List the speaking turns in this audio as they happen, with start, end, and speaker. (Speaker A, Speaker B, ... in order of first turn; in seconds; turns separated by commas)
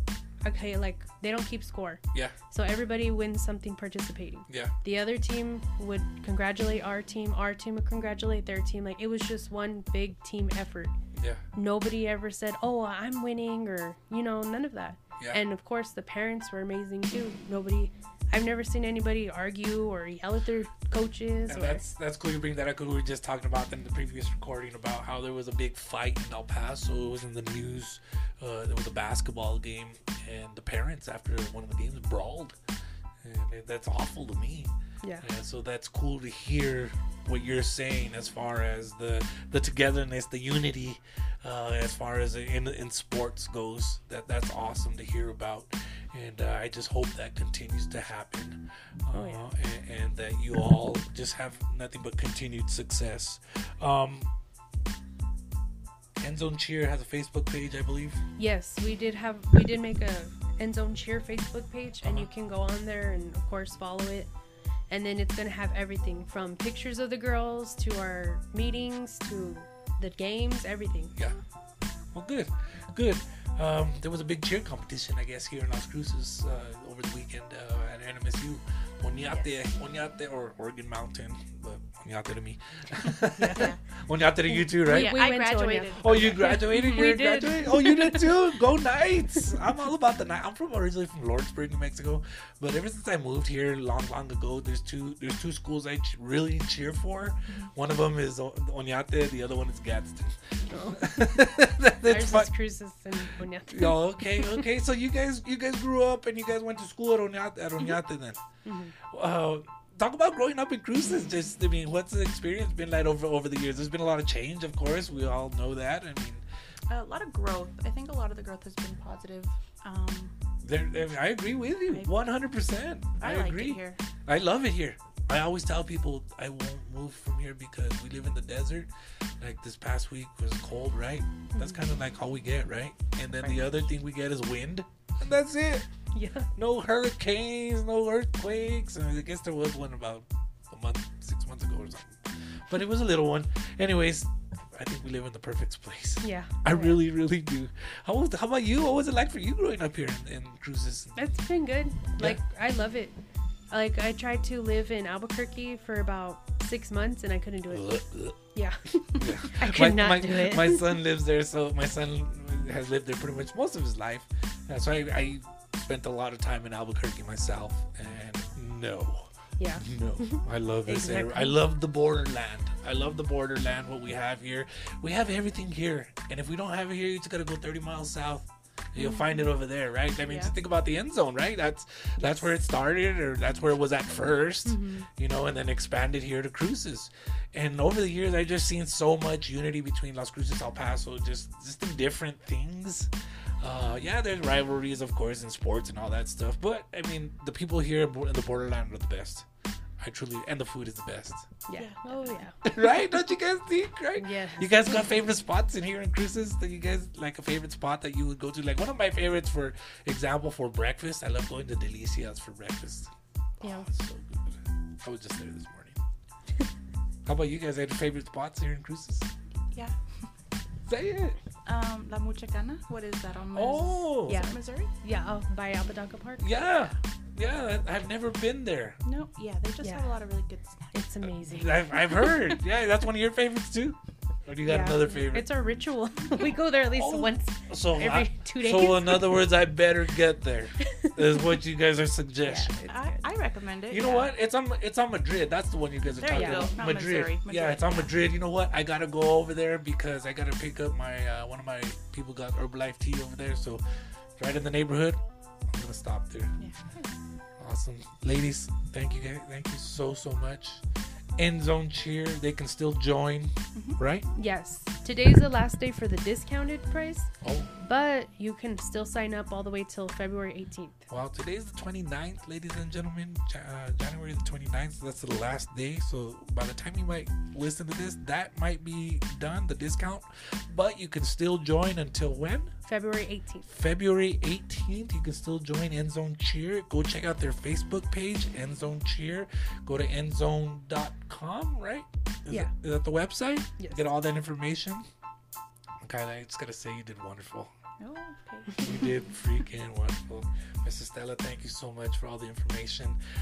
Speaker A: 0.4-10.9, Speaker B: 11.1-11.4, Speaker A: 11.5-21.8, Speaker B: 21.5-32.6, Speaker B: 33.2-54.3, Speaker A: 49.1-49.4, Speaker B: 56.2-58.2, Speaker A: 58.4-64.3, Speaker B: 62.0-62.3, Speaker A: 64.9-71.1, Speaker B: 72.1-85.2, Speaker A: 83.4-83.7, Speaker C: 83.5-83.8, Speaker A: 84.5-88.3, Speaker C: 84.8-87.8, Speaker B: 86.0-102.5, Speaker C: 97.5-97.7, Speaker A: 100.7-101.3, Speaker A: 102.0-104.6, Speaker B: 103.7-108.4, Speaker A: 108.6-108.9, Speaker B: 109.1-116.4, Speaker C: 116.9-120.3, Speaker B: 120.6-128.9, Speaker C: 123.2-124.0, Speaker B: 129.4-135.9, Speaker A: 131.6-131.8, Speaker C: 133.3-133.8, Speaker A: 136.1-136.5, Speaker B: 136.6-151.3, Speaker A: 146.2-147.0, Speaker A: 151.2-153.2, Speaker A: 153.7-158.0, Speaker B: 157.7-158.4, Speaker A: 158.5-160.9, Speaker B: 159.1-199.5, Speaker A: 169.6-171.6, Speaker A: 179.0-179.5, Speaker A: 180.2-180.5, Speaker A: 182.2-182.5, Speaker A: 184.7-185.1, Speaker B: 200.0-201.5, Speaker A: 201.7-202.6, Speaker C: 201.7-202.5, Speaker B: 202.7-216.0, Speaker A: 204.2-205.0, Speaker A: 213.6-213.9, Speaker B: 217.3-219.3, Speaker C: 219.7-220.3, Speaker B: 220.9-221.4, Speaker C: 221.7-224.9, Speaker B: 223.5-224.5, Speaker A: 224.3-226.6, Speaker B: 226.4-229.0, Speaker C: 229.0-231.0, Speaker A: 229.8-230.2, Speaker A: 230.9-231.9, Speaker B: 231.4-235.5, Speaker C: 232.1-232.6, Speaker A: 234.7-239.4, Speaker B: 236.9-242.8, Speaker A: 241.0-241.4, Speaker A: 242.4-243.2, Speaker C: 242.8-244.3, Speaker B: 243.9-253.8, Speaker C: 246.2-248.1, Speaker A: 246.3-246.8, Speaker B: 254.4-256.5, Speaker C: 256.6-257.1, Speaker B: 257.6-260.8, Speaker B: 261.4-264.3, Speaker A: 264.3-271.0, Speaker B: 267.4-267.7, Speaker B: 271.1-282.7, Speaker A: 282.9-283.7, Speaker B: 283.7-295.1, Speaker B: 296.0-297.7, Speaker C: 298.0-298.9, Speaker B: 298.8-303.2